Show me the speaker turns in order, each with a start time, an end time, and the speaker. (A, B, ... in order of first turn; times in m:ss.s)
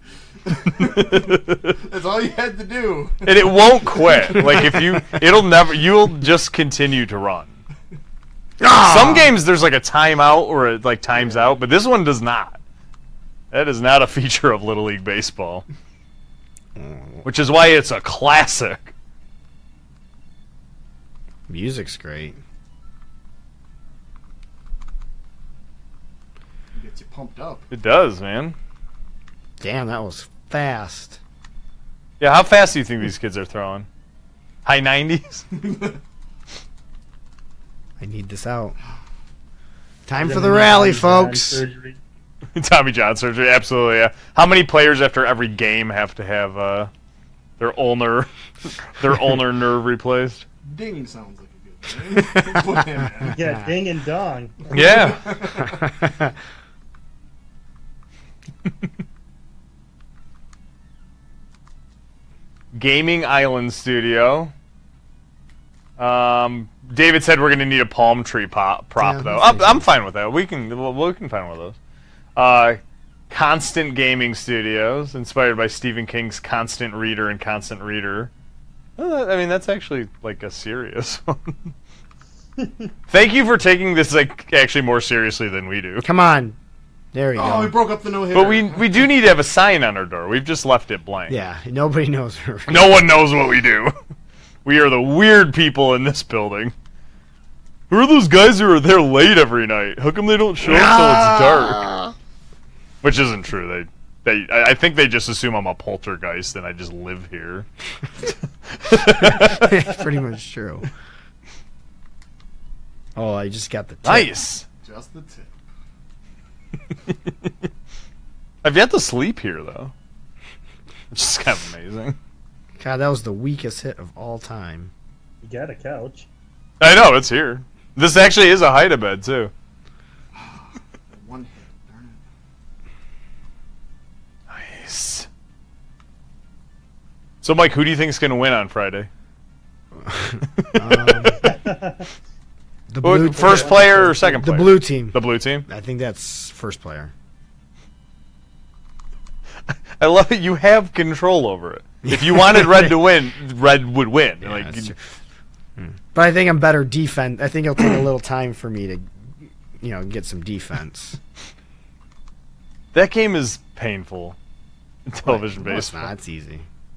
0:00.5-0:04.8 A
0:00.8-0:01.8 B
0:03.2-0:07.6 B
0:08.6-0:09.3 C
0:08.7-0:12.6 B
0:13.5-0:15.6 B
0:16.8-0:17.2 C
0:17.2-0:18.9 B
0:21.5-0:22.4 C
0:26.7-0:27.7 A
0:27.7-0:28.6 B
0:29.6-0:31.2 C
0:32.2-0:33.9 B
0:34.6-0:35.5 B
0:35.5-0:36.0 A
0:38.0-0:38.8 C
0:40.1-0:41.6 C
0:40.2-0:42.0 D
0:42.6-0:46.9 B
0:47.6-0:50.4 B
0:50.6-0:53.4 A
0:53.3-0:54.7 D
0:54.7-0:55.2 B
0:54.7-0:55.9 A
1:02.7-1:04.5 B
1:06.0-1:11.8 B
1:09.0-1:09.9 C
1:12.4-1:18.3 B
1:19.0-1:21.7 B
1:23.1-1:26.1 B
1:26.0-1:26.6 C
1:27.1-1:27.9 C
1:27.4-1:29.1 A
1:28.3-1:31.4 B
1:31.3-1:33.0 C
1:32.7-1:33.9 B
1:34.6-1:36.7 B
1:37.9-1:41.9 B
1:40.6-1:42.1 C
1:43.0-1:47.7 B
1:48.8-1:49.7 B
1:49.0-1:50.9 C
1:53.2-1:54.3 C
1:54.0-1:54.6 B
1:54.8-1:55.6 A
1:58.6-1:59.9 B
2:01.1-2:02.2 B
2:02.8-2:04.9 C
2:05.4-2:06.3 D
2:06.8-2:09.5 B
2:10.3-2:12.2 A
2:14.5-2:15.3 B
2:17.4-2:19.1 B
2:20.0-2:21.5 C
2:20.6-2:21.3 B
2:21.4-2:22.0 D
2:22.9-2:27.1 C
2:23.0-2:25.7 B
2:23.4-2:24.4 D
2:30.0-2:34.9 B
2:32.1-2:32.6 C
2:34.4-2:35.0 C
2:35.8-2:39.1 C
2:39.8-2:41.2 C
2:42.9-2:44.4 B
2:45.1-2:46.1 B
2:45.2-2:46.7 C